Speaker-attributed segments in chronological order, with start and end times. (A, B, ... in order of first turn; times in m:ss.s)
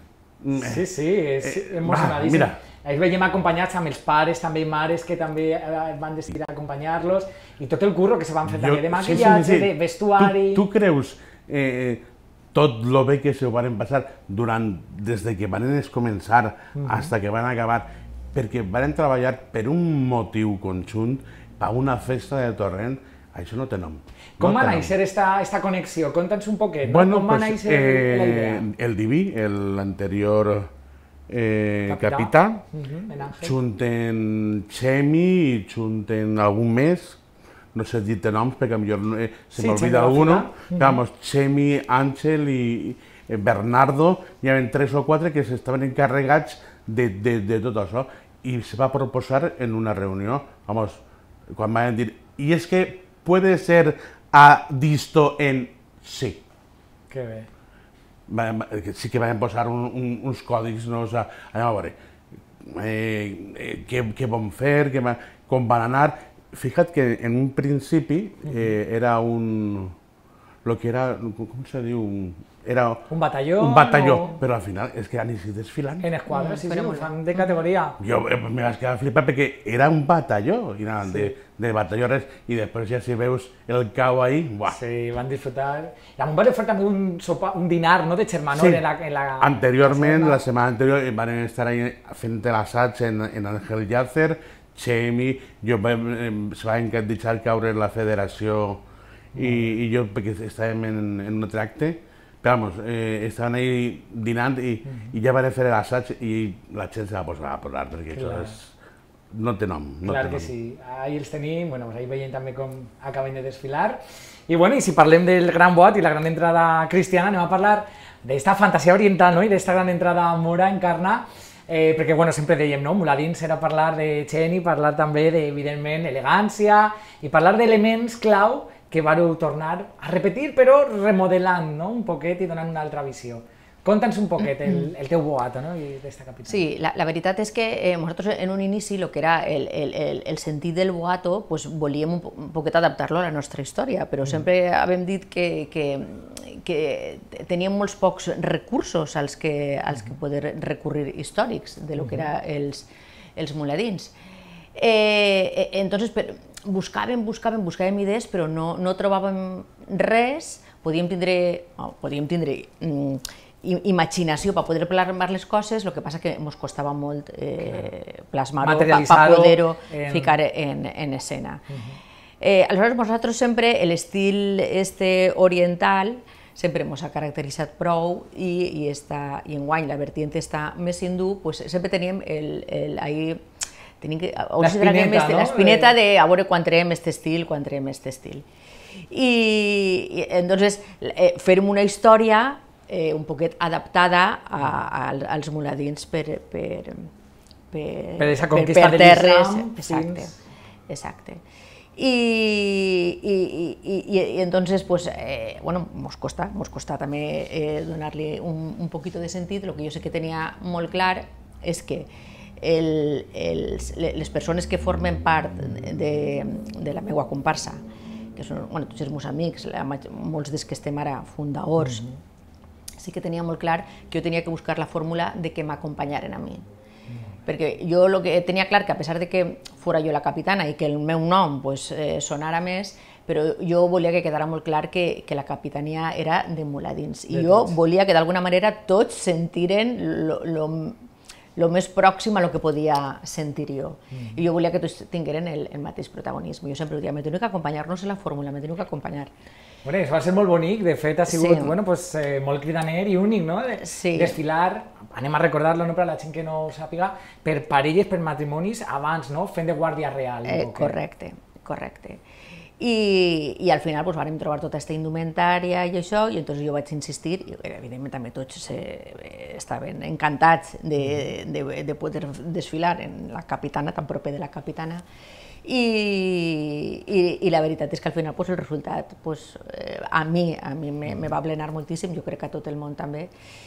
0:00.4-0:00.9 A
0:00.6-0:10.6 B
0:01.4-0:02.6 A
0:08.4-0:24.9 A
0:16.8-0:17.1 B
0:24.4-0:28.7 B
0:26.8-0:30.7 A
0:31.3-0:32.6 A
0:31.9-0:33.6 B
0:33.3-0:37.2 A
0:37.7-0:51.0 A
0:39.6-0:41.0 B
0:51.5-0:56.4 A
0:57.1-0:57.5 B
0:58.3-1:02.0 A
1:02.6-1:10.0 A
1:08.4-1:08.8 B
1:10.6-1:13.0 A
1:13.1-1:14.4 B
1:13.6-1:16.1 A
1:16.0-1:18.0 B
1:16.3-1:17.1 C
1:18.0-1:24.8 A
1:21.0-1:21.3 B
1:24.7-1:30.4 B
1:28.5-1:28.8 A
1:29.4-1:38.8 A
1:39.3-1:48.7 A
1:39.4-1:39.7 B
1:44.8-1:45.2 B
1:48.1-1:48.6 B
1:49.3-1:50.5 A
1:50.0-2:16.6 B
2:16.5-2:34.2 C
2:32.0-2:32.3 B
2:34.8-2:51.6 C
2:47.6-2:47.9 B
2:48.6-2:50.4 B
2:51.7-2:52.0 B
2:52.4-3:03.4 C
3:04.0-3:08.4 C
3:04.6-3:06.0 B
3:09.1-3:17.1 C
3:17.7-3:20.3 C
3:18.2-3:20.3 B
3:20.9-3:21.4 C
3:22.0-3:37.8 C
3:38.4-3:42.0 C
3:41.8-3:42.2 B
3:43.0-3:46.7 C
3:47.5-4:01.0 C
3:57.3-3:57.8 B
4:01.6-4:09.3 C
4:04.1-4:04.4 B
4:09.8-4:20.9 B
4:11.3-4:11.8 C
4:13.8-4:14.4 C
4:20.5-4:22.2 C
4:22.8-4:35.0 C
4:35.6-4:43.3 C